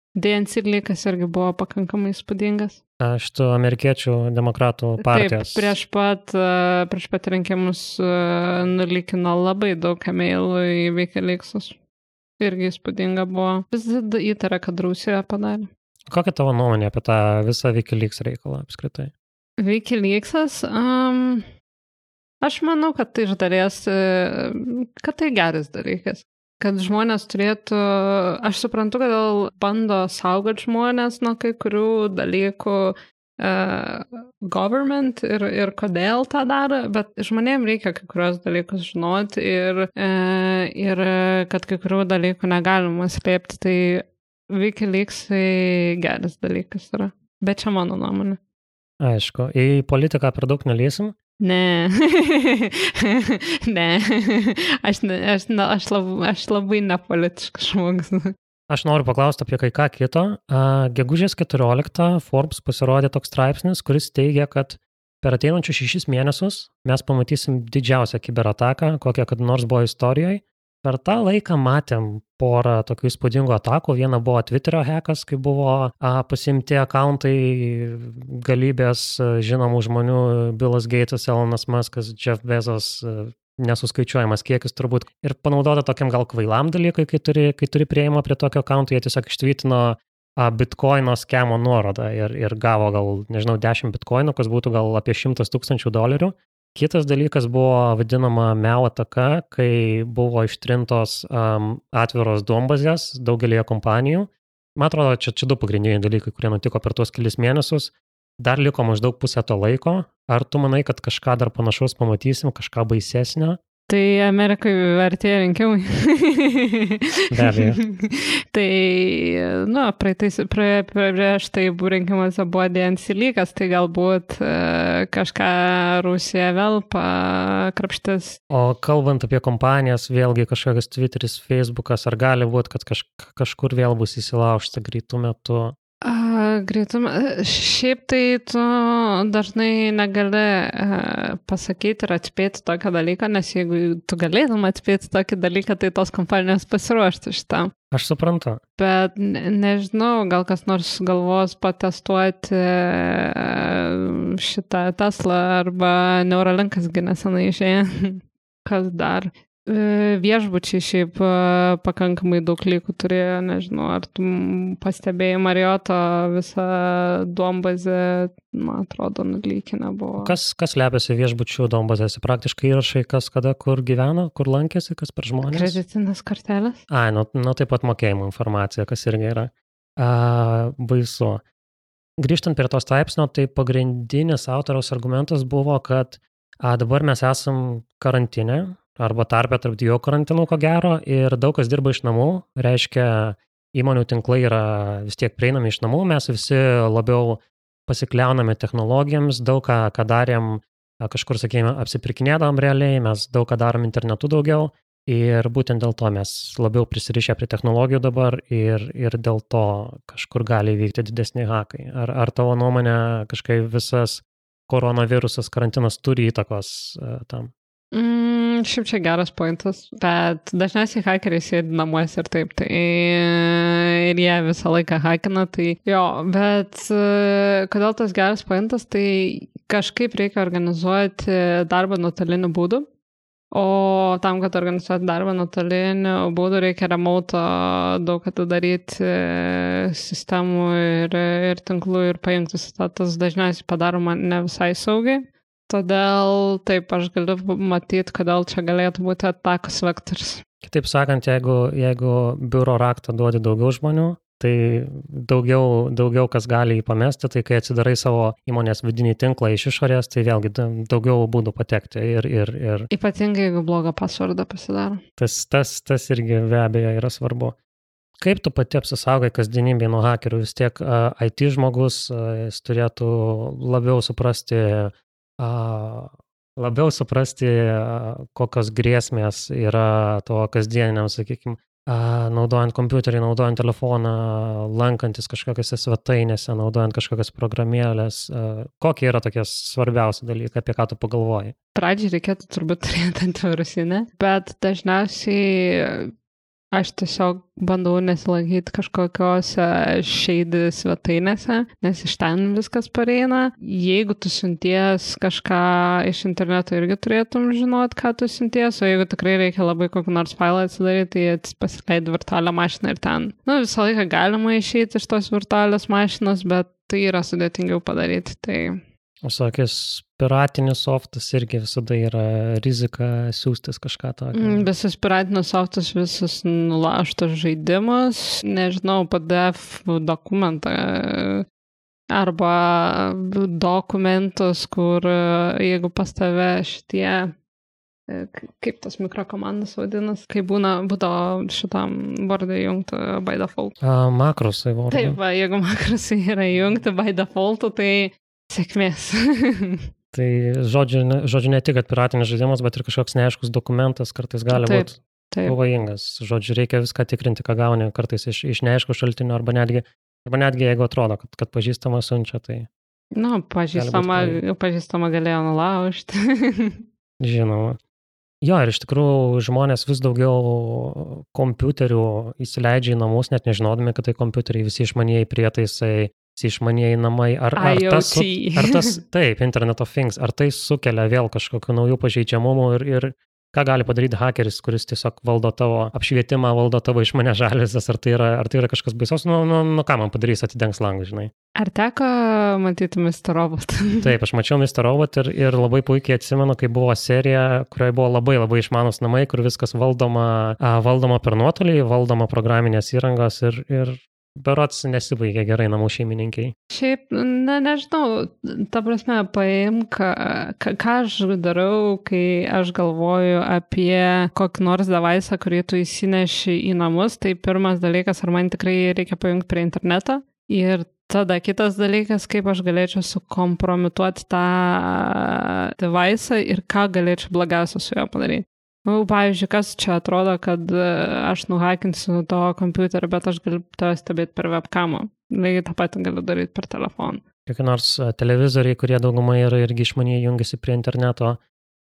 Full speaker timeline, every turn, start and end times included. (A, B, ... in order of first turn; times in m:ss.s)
0:00.2-0:02.8 A
0:03.0-0:05.8 B
0:05.0-0:11.8 A
0:12.4-0:15.7 A
0:16.1-0:19.1 B
0:19.6-0:21.5 A
0:22.4-0:48.4 A
0:49.0-0:51.2 B
0:51.4-0:58.3 A
0:58.7-1:53.6 B
1:53.9-2:08.4 A
1:57.3-1:57.8 B
2:08.5-2:15.8 B
2:16.0-2:27.7 A
2:27.9-2:28.6 B
2:28.8-2:50.3 A
2:50.2-2:55.8 B
2:55.4-2:56.8 A
2:56.9-3:01.4 B
3:02.2-3:37.5 B
3:37.9-3:52.9 A
3:53.5-4:10.4 A
4:10.6-4:22.9 B
4:22.9-4:25.0 A
4:25.2-4:27.6 B
4:28.2-4:51.6 B
4:51.8-4:56.1 A
4:56.7-5:18.8 A
5:19.2-5:24.7 B
5:24.4-5:31.4 A
5:32.1-5:37.3 A
5:38.1-5:43.8 A
5:43.8-5:45.2 B
5:44.9-5:49.8 A
5:50.1-6:02.7 B
5:54.5-5:55.6 A
6:03.1-6:06.8 A
6:03.7-6:04.4 B
6:07.2-6:07.8 B
6:08.4-6:31.3 B
6:17.6-6:19.0 A
6:31.6-6:34.1 A
6:34.0-6:46.5 B
6:46.7-7:17.2 A
7:17.5-7:21.4 B